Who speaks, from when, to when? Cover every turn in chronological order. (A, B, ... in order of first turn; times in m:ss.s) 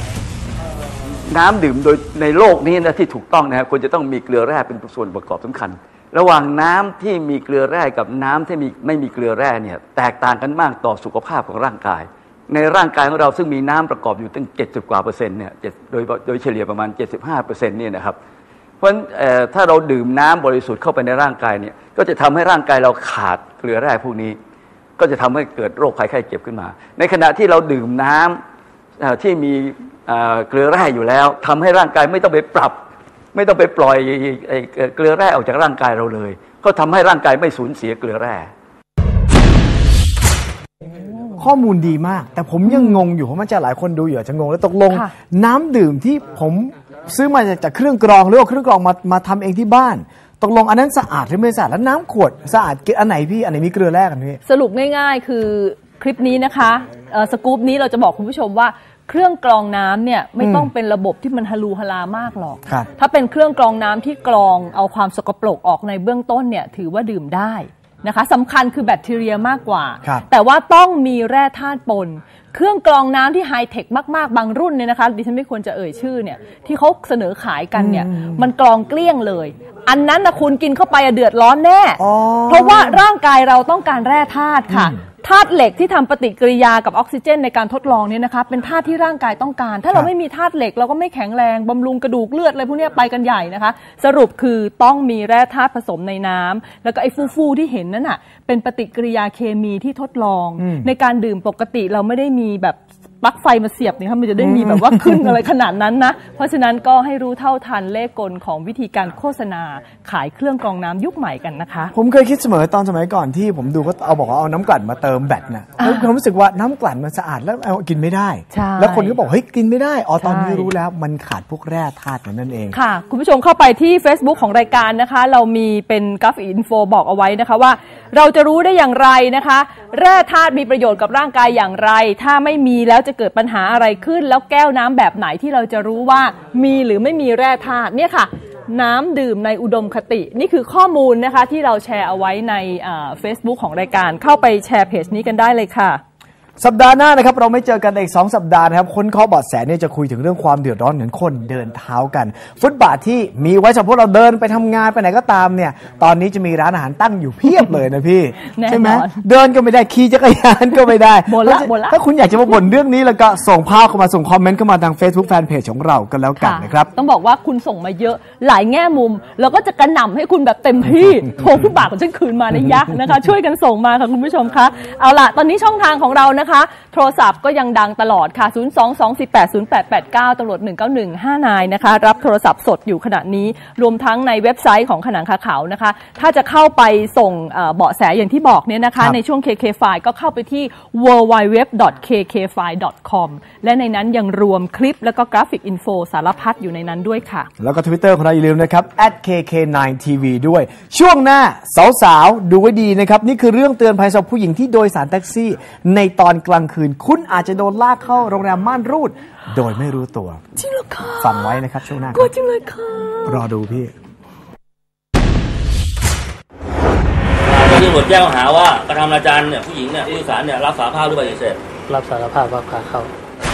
0:01.1-0:18.2 A
0:18.8-0:24.4 A
0:25.0-0:28.4 A
0:29.0-0:32.8 A
0:33.3-0:38.5 A
0:41.4-0:54.4 B
0:42.7-0:43.0 C
0:54.4-1:51.9 C
1:00.4-1:00.7 B
1:17.8-1:18.4 B
1:22.0-1:23.0 B
1:24.7-1:25.0 B
1:40.6-1:40.9 B
1:44.4-1:45.3 B
1:51.9-2:02.8 B
1:55.8-1:56.1 C
1:58.5-1:59.2 C
2:00.2-2:00.7 C
2:02.7-2:26.0 C
2:26.6-2:46.9 B
2:38.5-2:39.2 C
2:41.3-2:42.0 C
2:46.4-3:17.5 C
3:17.6-3:30.4 B
3:30.6-3:33.4 C
3:31.2-3:32.3 B
3:33.3-3:33.9 B
3:37.5-3:41.6 D
3:38.3-3:39.0 E
3:41.8-3:43.1 E